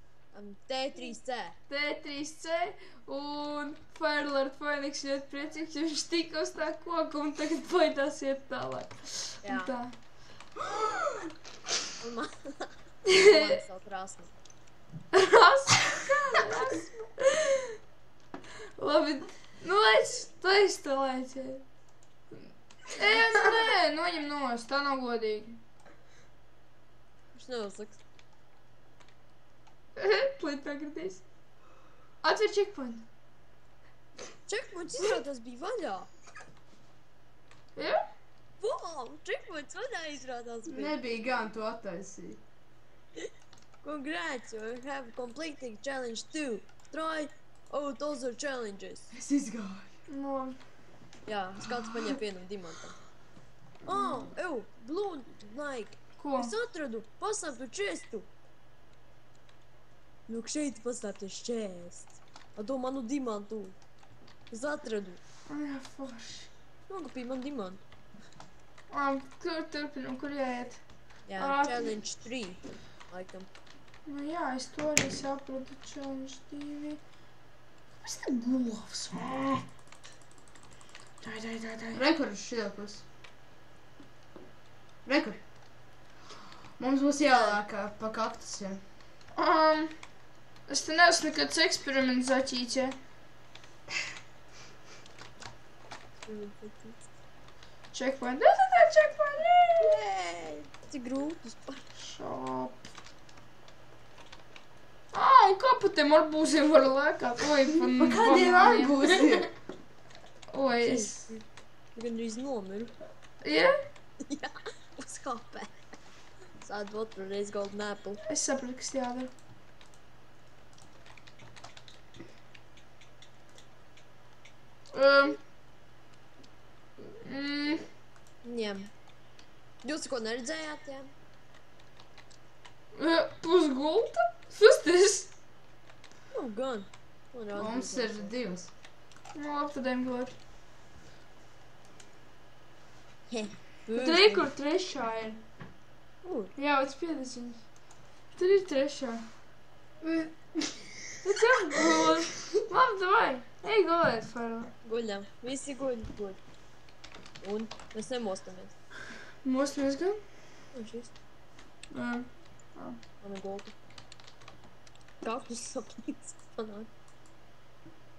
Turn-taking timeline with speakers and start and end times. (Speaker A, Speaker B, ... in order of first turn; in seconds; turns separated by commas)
Speaker A: 0.3-1.6, Speaker B: 1.7-9.9, Speaker A: 9.4-9.7, Speaker C: 10.7-11.2, Speaker A: 12.0-14.3, Speaker B: 13.1-13.6, Speaker B: 15.1-17.7, Speaker B: 18.8-21.6, Speaker B: 22.9-25.6, Speaker A: 27.3-28.0, Speaker B: 29.9-31.2, Speaker B: 32.2-33.0, Speaker A: 34.5-36.1, Speaker B: 37.8-38.0, Speaker A: 38.6-41.0, Speaker C: 40.6-42.4, Speaker A: 43.8-49.1, Speaker C: 49.1-49.9, Speaker B: 50.1-50.6, Speaker A: 51.2-53.0, Speaker B: 53.9-54.3, Speaker A: 53.9-58.3, Speaker B: 56.2-56.5, Speaker A: 60.3-63.8, Speaker A: 64.5-65.2, Speaker B: 65.5-66.5, Speaker A: 66.9-67.8, Speaker B: 68.9-70.8, Speaker A: 71.3-73.5, Speaker B: 71.3-72.0, Speaker B: 74.0-77.0, Speaker B: 78.0-79.6, Speaker B: 81.2-82.0, Speaker C: 81.9-83.0, Speaker C: 85.0-85.4, Speaker C: 86.8-88.8, Speaker A: 87.3-87.6, Speaker B: 89.3-90.0, Speaker B: 90.7-93.0, Speaker A: 96.2-97.0, Speaker B: 97.9-100.0, Speaker A: 99.8-101.8, Speaker B: 102.0-102.8, Speaker B: 105.1-109.3, Speaker C: 108.0-109.5, Speaker B: 110.5-111.2, Speaker A: 110.8-111.4, Speaker A: 111.9-112.9, Speaker B: 113.4-113.8, Speaker A: 114.2-115.7, Speaker A: 116.6-118.2, Speaker B: 118.2-119.3, Speaker B: 124.9-125.4, Speaker B: 127.1-127.9, Speaker A: 128.4-128.9, Speaker A: 129.8-131.1, Speaker B: 132.9-135.3, Speaker A: 136.3-138.3, Speaker C: 137.6-138.7, Speaker B: 139.3-140.3, Speaker A: 143.3-144.5, Speaker B: 144.0-145.4, Speaker A: 146.2-146.5, Speaker B: 146.6-147.6, Speaker B: 148.3-149.3, Speaker B: 150.0-150.3, Speaker B: 151.1-154.7, Speaker A: 154.8-156.4, Speaker A: 157.4-158.7, Speaker B: 159.4-160.2, Speaker A: 160.7-161.1, Speaker B: 161.9-163.0, Speaker A: 163.2-163.7, Speaker A: 165.2-166.9